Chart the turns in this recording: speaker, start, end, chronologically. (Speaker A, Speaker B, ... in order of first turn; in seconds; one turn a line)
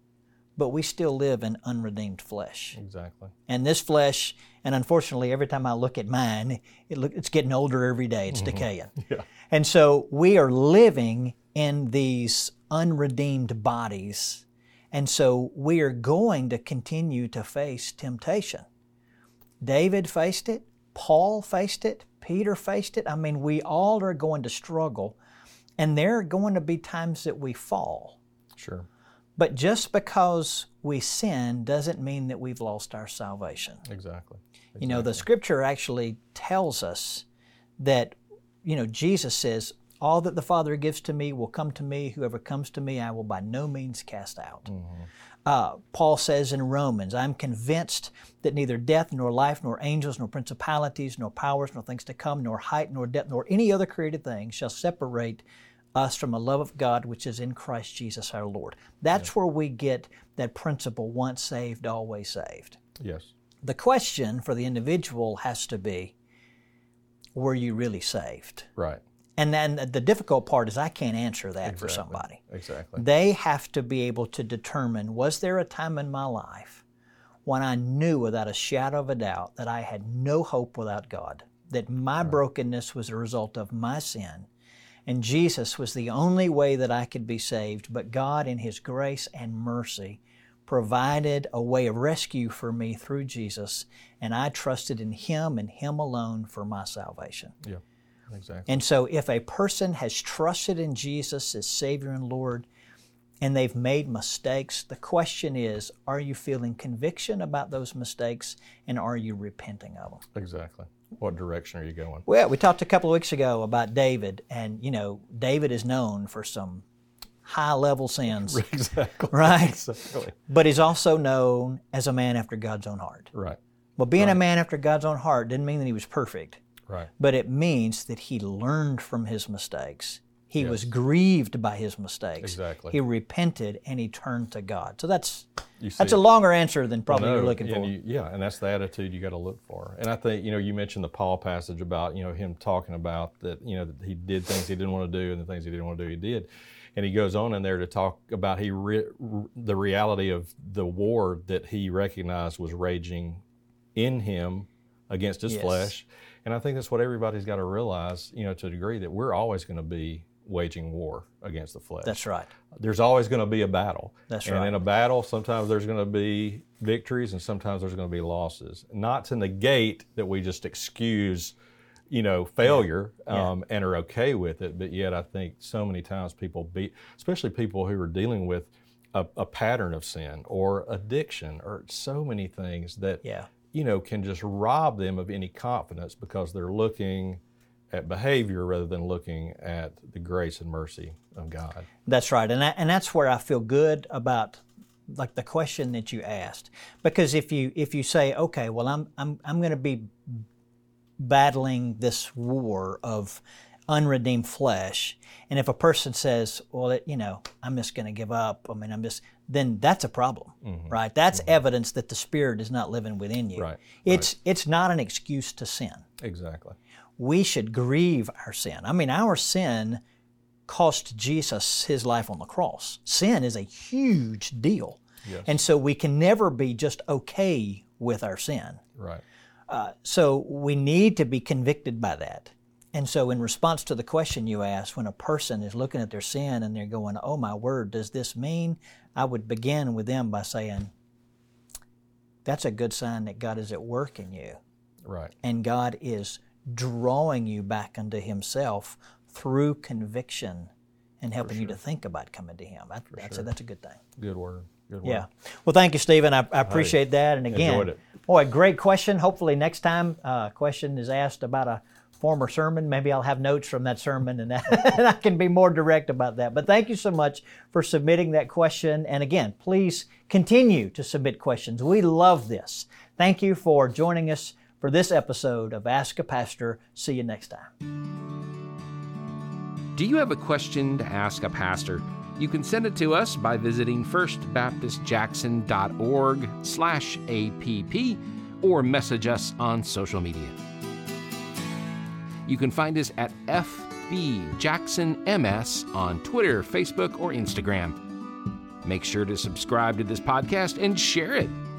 Speaker A: 0.6-2.8
Speaker B: 2.8-3.3
Speaker A: 3.5-9.0
Speaker B: 8.3-9.3
Speaker A: 9.5-18.7
Speaker A: 19.6-25.2
Speaker A: 25.8-28.2
Speaker B: 28.6-28.9
Speaker A: 29.4-33.9
Speaker B: 33.9-35.2
Speaker A: 34.8-37.2
Speaker A: 37.8-44.7
Speaker B: 44.7-45.1
Speaker A: 45.5-62.8
Speaker B: 63.0-63.3
Speaker A: 63.6-66.1
Speaker A: 67.3-68.7
Speaker A: 69.4-72.4
Speaker B: 71.6-73.0
Speaker A: 73.0-76.8
Speaker A: 77.5-84.5
Speaker A: 85.1-97.6
Speaker B: 97.6-98.8
Speaker A: 98.7-102.7
Speaker A: 103.4-110.2
Speaker B: 110.3-112.3
Speaker A: 112.3-116.8
Speaker A: 117.4-118.6
Speaker B: 118.3-120.3
Speaker A: 119.3-123.3
Speaker B: 123.3-123.6
Speaker A: 124.0-126.6
Speaker A: 127.2-135.5
Speaker B: 130.6-130.8
Speaker B: 132.4-133.0
Speaker B: 135.8-136.2
Speaker A: 136.0-137.9
Speaker B: 137.1-153.4
Speaker B: 153.9-162.2
Speaker A: 155.5-155.9
Speaker A: 162.0-162.5
Speaker B: 162.8-171.6
Speaker A: 164.3-164.8
Speaker B: 172.1-183.2
Speaker A: 172.7-173.5
Speaker A: 183.2-183.5
Speaker B: 183.7-191.9
Speaker A: 192.1-200.4
Speaker A: 201.2-216.1
Speaker B: 210.6-210.9
Speaker B: 213.6-214.3
Speaker B: 216.2-216.8
Speaker A: 217.2-220.0
Speaker A: 220.7-228.8
Speaker B: 225.2-225.6
Speaker B: 229.0-229.2
Speaker A: 229.7-240.9
Speaker A: 242.4-244.6
Speaker B: 245.1-245.3
Speaker A: 245.4-254.0
Speaker B: 251.4-251.8
Speaker B: 253.2-253.4
Speaker B: 254.2-255.2
Speaker A: 255.0-277.7
Speaker B: 256.7-257.0
Speaker B: 257.5-258.0
Speaker C: 280.0-290.6
Speaker C: 292.5-298.0
Speaker C: 298.8-301.6